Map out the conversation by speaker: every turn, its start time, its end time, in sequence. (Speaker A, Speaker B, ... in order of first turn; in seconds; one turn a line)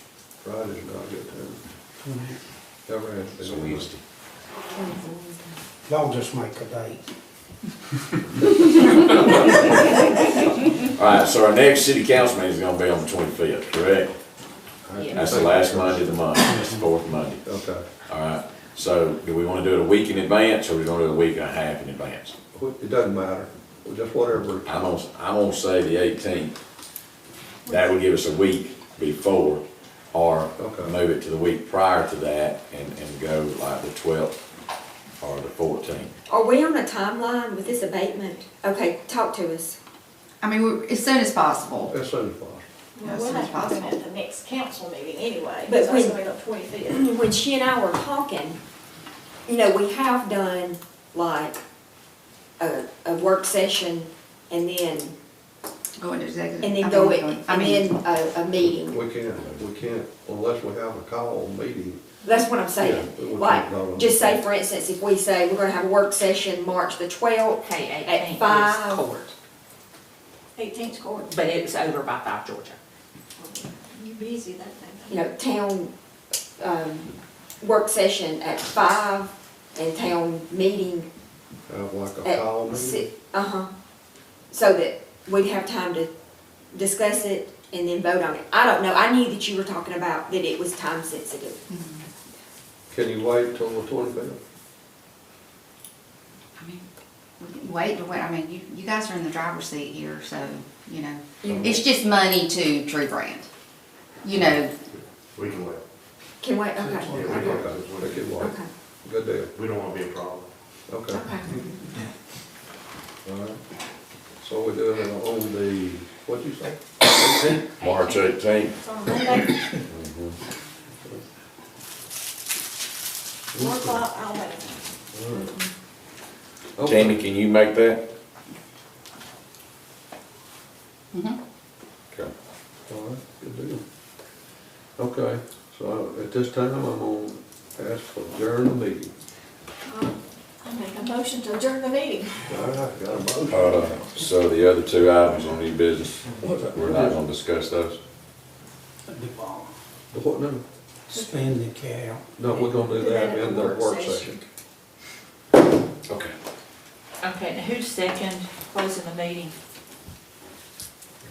Speaker A: 0.4-1.6
Speaker B: 2.0-2.3
Speaker A: 2.9-3.9
Speaker C: 3.4-4.0
Speaker D: 4.7-5.6
Speaker B: 5.9-7.0
Speaker C: 10.9-14.1
Speaker A: 14.8-16.2
Speaker D: 14.9-15.2
Speaker C: 15.1-17.4
Speaker A: 17.4-17.9
Speaker C: 18.1-22.3
Speaker A: 22.5-24.9
Speaker C: 24.6-26.5
Speaker C: 27.6-34.3
Speaker A: 30.6-30.9
Speaker C: 35.2-36.1
Speaker D: 36.3-39.8
Speaker E: 40.4-41.9
Speaker A: 41.9-42.6
Speaker F: 43.0-47.1
Speaker E: 43.0-44.0
Speaker D: 45.6-46.2
Speaker D: 46.9-48.6
Speaker D: 49.5-51.6
Speaker D: 52.6-55.1
Speaker E: 56.0-58.0
Speaker D: 56.6-59.0
Speaker A: 58.6-62.0
Speaker D: 62.2-69.0
Speaker A: 62.8-64.4
Speaker G: 67.6-69.3
Speaker F: 70.5-71.3
Speaker G: 71.3-72.8
Speaker F: 73.4-75.3
Speaker D: 75.1-75.9
Speaker D: 76.6-81.1
Speaker A: 81.7-83.0
Speaker D: 82.2-83.7
Speaker D: 84.5-86.1
Speaker D: 86.7-91.6
Speaker E: 91.7-92.0
Speaker A: 92.9-94.4
Speaker E: 96.6-96.8
Speaker E: 97.4-103.5
Speaker D: 101.4-101.8
Speaker E: 104.2-104.7
Speaker H: 105.3-105.8
Speaker D: 106.4-107.5
Speaker H: 107.1-108.3
Speaker A: 107.1-109.5
Speaker D: 108.4-108.7
Speaker H: 109.5-110.5
Speaker A: 110.9-111.2
Speaker D: 111.1-111.7
Speaker A: 113.2-113.6
Speaker A: 114.4-117.5
Speaker C: 117.1-119.1
Speaker G: 117.8-118.3
Speaker F: 118.8-119.8
Speaker C: 119.9-120.3
Speaker F: 123.5-125.7
Speaker A: 123.5-124.0
Speaker A: 125.1-125.5
Speaker A: 126.8-127.2
Speaker C: 126.8-128.0
Speaker E: 131.1-131.4
Speaker A: 132.9-133.8
Speaker A: 135.0-139.1
Speaker F: 139.9-142.6
Speaker A: 142.5-143.9
Speaker C: 143.5-148.0
Speaker A: 146.4-147.2
Speaker B: 149.1-149.7
Speaker A: 150.1-150.6
Speaker B: 151.1-152.3
Speaker F: 151.1-151.4
Speaker A: 152.3-154.4
Speaker F: 152.7-154.3
Speaker C: 156.1-156.3
Speaker G: 157.2-159.5